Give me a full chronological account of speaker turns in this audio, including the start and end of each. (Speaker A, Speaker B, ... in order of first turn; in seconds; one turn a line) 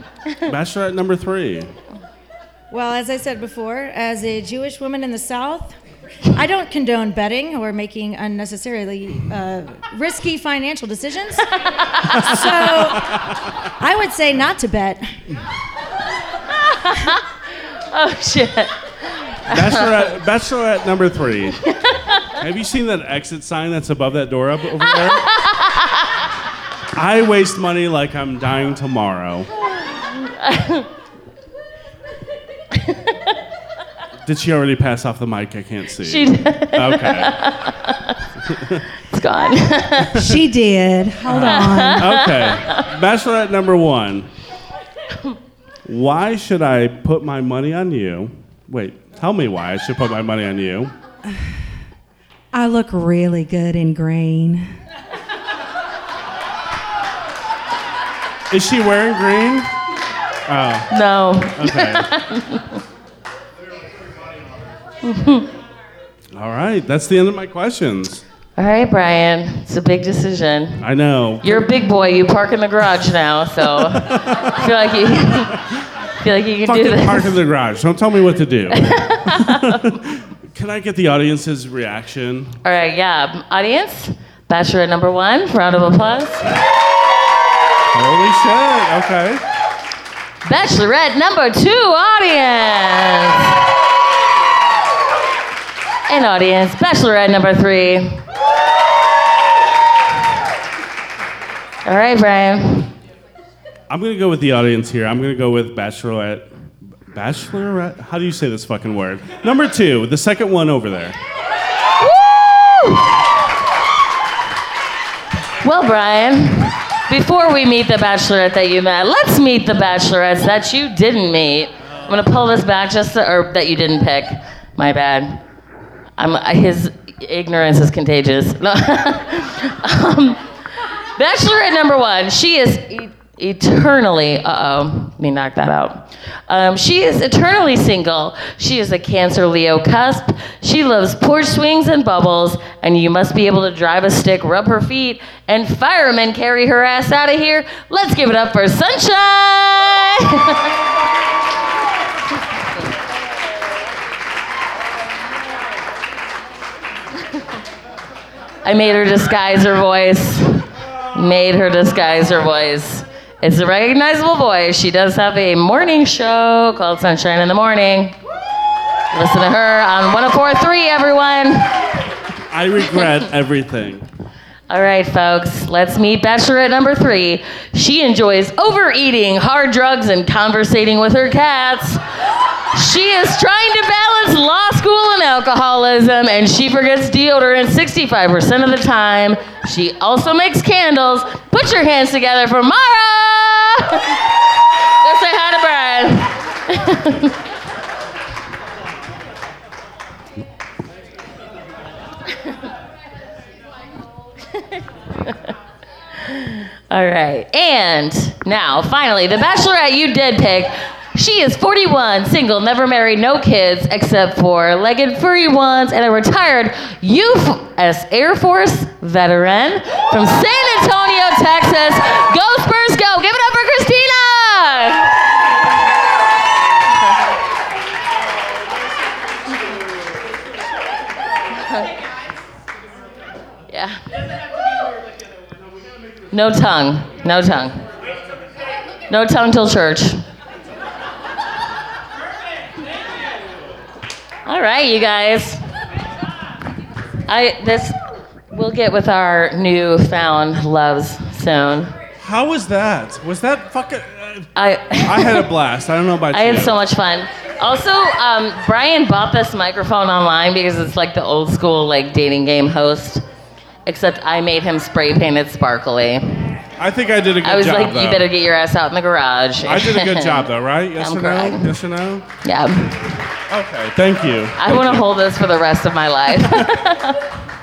Speaker A: 0.4-1.7
Speaker B: 2.7-5.8
Speaker B: 6.3-11.4
Speaker C: 11.6-12.3
Speaker B: 12.2-13.2
Speaker A: 12.3-12.8
Speaker B: 13.8-15.1
Speaker C: 16.6-17.2
Speaker C: 17.9-18.8
Speaker C: 19.3-19.9
Speaker A: 19.5-21.6
Speaker C: 21.7-22.2
Speaker A: 22.4-25.3
Speaker C: 24.9-26.1
Speaker A: 26.9-29.5
Speaker C: 30.0-30.9
Speaker A: 34.2-37.4
Speaker C: 36.0-38.2
Speaker A: 38.5-38.8
Speaker C: 39.1-40.2
Speaker D: 40.2-42.3
Speaker A: 41.3-44.3
Speaker C: 41.4-42.8
Speaker A: 45.9-50.9
Speaker D: 52.5-54.7
Speaker A: 58.5-59.7
Speaker A: 60.5-60.9
Speaker C: 60.9-62.8
Speaker A: 61.5-62.1
Speaker C: 65.0-65.5
Speaker A: 66.3-68.2
Speaker C: 68.6-70.8
Speaker A: 70.8-71.8
Speaker C: 71.4-75.6
Speaker A: 73.7-74.6
Speaker C: 76.2-77.4
Speaker A: 76.6-82.6
Speaker C: 78.7-79.8
Speaker C: 82.6-86.4
Speaker A: 87.9-89.4
Speaker C: 90.4-93.6
Speaker C: 96.1-98.2
Speaker C: 101.8-102.9
Speaker A: 103.9-106.5
Speaker A: 107.1-111.2
Speaker C: 112.0-113.1
Speaker C: 115.6-125.4
Speaker C: 126.2-130.4
Speaker C: 131.2-150.7
Speaker C: 158.6-168.2
Speaker C: 169.1-171.9
Speaker A: 172.5-174.1
Speaker C: 174.7-182.0
Speaker C: 182.7-194.2
Speaker C: 195.0-197.3
Speaker C: 206.2-225.1
Speaker C: 233.7-234.0
Speaker C: 236.3-237.8
Speaker C: 239.1-240.2
Speaker C: 244.4-245.6
Speaker C: 247.3-248.0
Speaker C: 248.5-252.0
Speaker A: 252.2-256.8
Speaker C: 254.6-255.5
Speaker C: 256.3-263.2
Speaker C: 263.9-266.5
Speaker A: 266.8-268.3
Speaker C: 267.4-271.7
Speaker A: 269.6-272.3
Speaker C: 272.4-273.1
Speaker A: 273.5-275.1
Speaker C: 274.6-277.2
Speaker A: 276.4-276.7